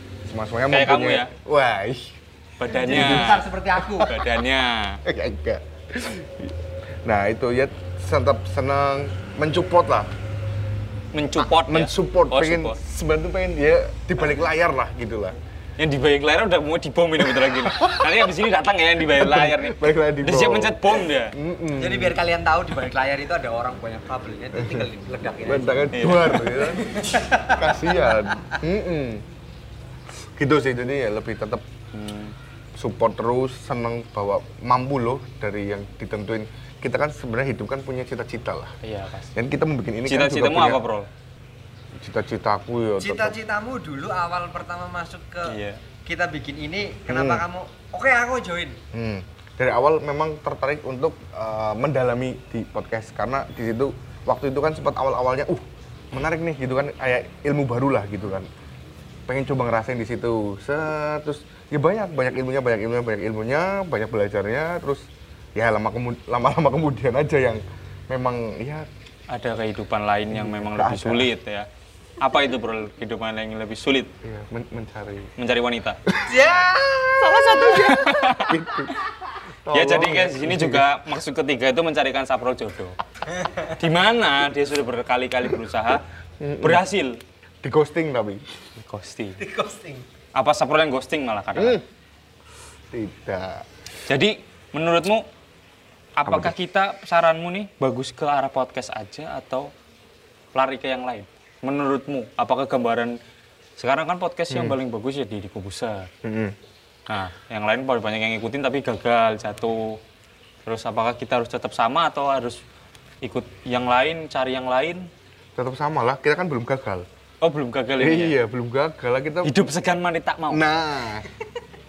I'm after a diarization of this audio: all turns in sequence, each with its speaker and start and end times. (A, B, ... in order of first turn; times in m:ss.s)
0:00.2-0:02.2 A
0:00.7-0:01.3 B
0:02.6-0:05.0 B
0:02.8-0:04.1 C
0:02.8-0:04.3 A
0:05.0-0:10.1 A
0:11.1-0:12.8 B
0:11.4-0:15.4 A
0:15.8-0:21.4 B
0:17.2-0:18.3 A
0:19.0-0:22.2 A
0:21.7-0:28.6 C
0:24.6-0:24.9 A
0:25.4-0:29.2 A
0:25.9-0:26.6 B
0:30.2-0:31.6 A
0:31.9-0:32.3 B
0:32.8-0:38.7 A
0:38.8-0:39.3 B
0:39.3-0:40.8 A
0:40.1-0:41.1 B
0:41.9-0:43.4 A
0:43.0-0:48.8 C
0:45.4-0:45.8 B
0:47.1-0:47.4 A
0:48.9-0:58.5 A
0:59.3-1:08.9 A
1:09.3-1:11.7 B
1:10.3-1:11.3 A
1:12.2-1:14.1 B
1:14.2-1:15.3 A
1:15.4-1:16.0 B
1:16.1-1:16.6 A
1:16.2-1:18.3 C
1:17.2-1:18.9 A
1:17.3-1:18.6 B
1:19.6-1:20.8 A
1:19.7-1:23.0 B
1:23.6-1:26.0 B
1:26.4-1:26.8 A
1:26.6-1:27.2 B
1:27.6-1:28.4 A
1:28.8-1:29.4 B
1:29.4-1:30.1 C
1:30.3-1:31.8 B
1:31.6-1:31.8 A
1:32.9-1:33.7 A
1:34.1-1:35.3 B
1:36.2-1:39.7 B
1:36.2-1:36.5 A
1:40.5-1:43.2 B
1:43.8-1:46.1 B
1:44.5-1:44.8 A
1:46.2-1:46.6 A
1:47.1-1:50.0 B
1:50.6-1:52.6 B
1:53.2-1:55.1 B
1:55.6-1:57.1 A
1:57.4-1:58.4 B
1:58.0-1:59.7 A
1:59.4-2:00.6 B
2:00.5-2:01.3 A